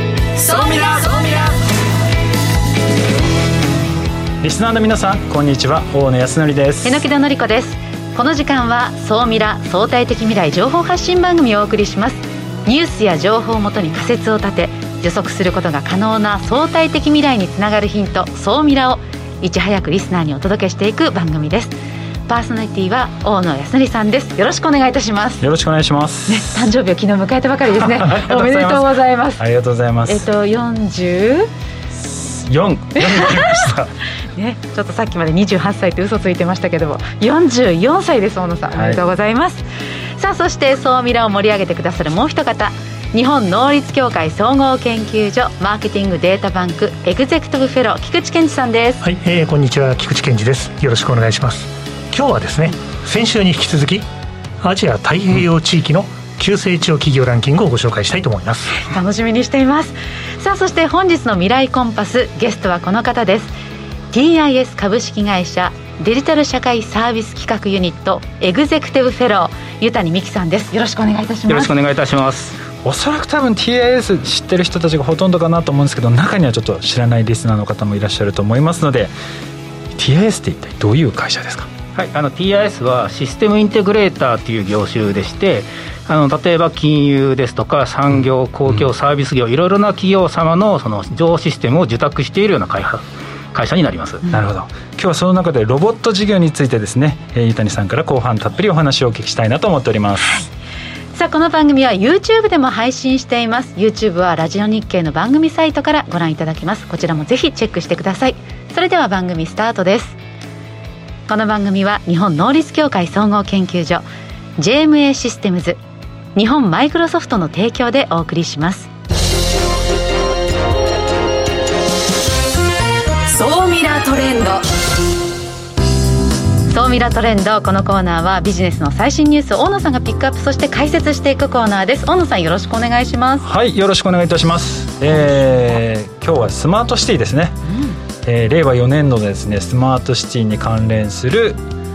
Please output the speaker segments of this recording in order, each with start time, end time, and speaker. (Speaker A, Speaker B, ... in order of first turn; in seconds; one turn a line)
Speaker A: 0.3-1.6
Speaker B: 4.4-7.0
Speaker A: 6.8-21.8
Speaker A: 22.3-25.4
Speaker B: 25.4-26.7
Speaker A: 26.3-29.4
Speaker B: 27.8-30.3
Speaker A: 30.1-31.5
Speaker B: 32.0-33.9
Speaker A: 33.0-33.7
Speaker A: 34.3-39.6
Speaker B: 38.7-39.0
Speaker A: 40.2-49.1
Speaker C: 49.0-54.1
Speaker C: 54.6-58.9
Speaker A: 58.8-63.5
Speaker A: 64.1-71.7
Speaker D: 71.5-72.6
Speaker B: 72.8-79.1
Speaker B: 80.0-81.7
Speaker D: 82.0-94.2
Speaker B: 94.3-100.4
Speaker A: 100.2-100.5
Speaker A: 101.1-110.2
Speaker A: 111.3-114.1
Speaker A: 114.6-115.8
Speaker A: 116.3-118.9
Speaker A: 123.3-124.7
Speaker A: 126.7-133.5
Speaker B: 133.4-137.6
Speaker A: 137.7-138.0
Speaker B: 138.2-141.6